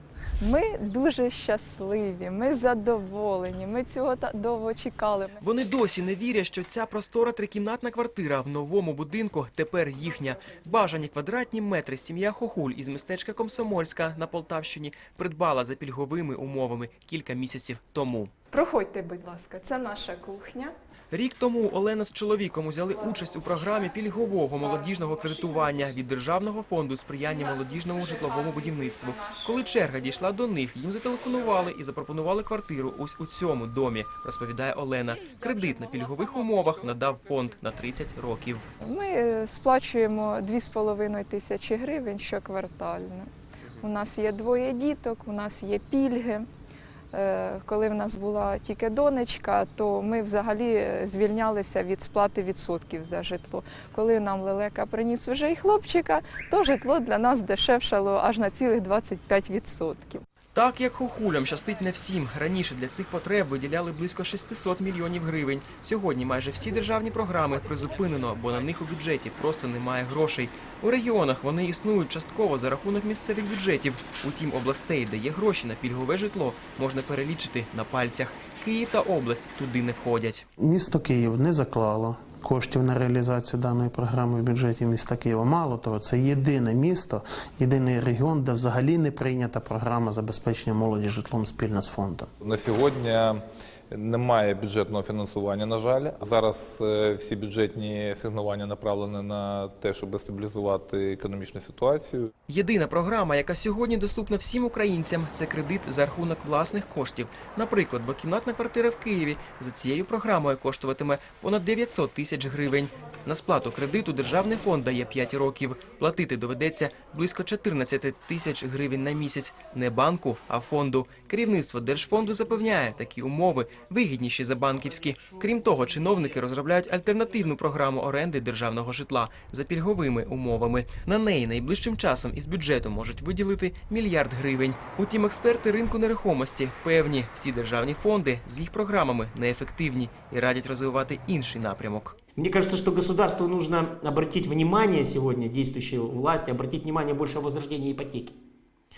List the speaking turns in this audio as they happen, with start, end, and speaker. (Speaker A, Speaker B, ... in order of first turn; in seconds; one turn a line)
Speaker A: 0.4-5.5
Speaker B: 5.4-18.3
Speaker A: 18.5-20.7
Speaker B: 21.1-38.6
Speaker A: 23.0-26.0
Speaker A: 27.3-29.9
Speaker A: 38.8-43.3
Speaker A: 43.8-46.5
Speaker A: 47.1-60.2
Speaker B: 60.5-80.5
Speaker C: 80.6-92.3
Speaker D: 92.4-102.3
Speaker B: 102.5-142.2
Speaker E: 142.4-148.4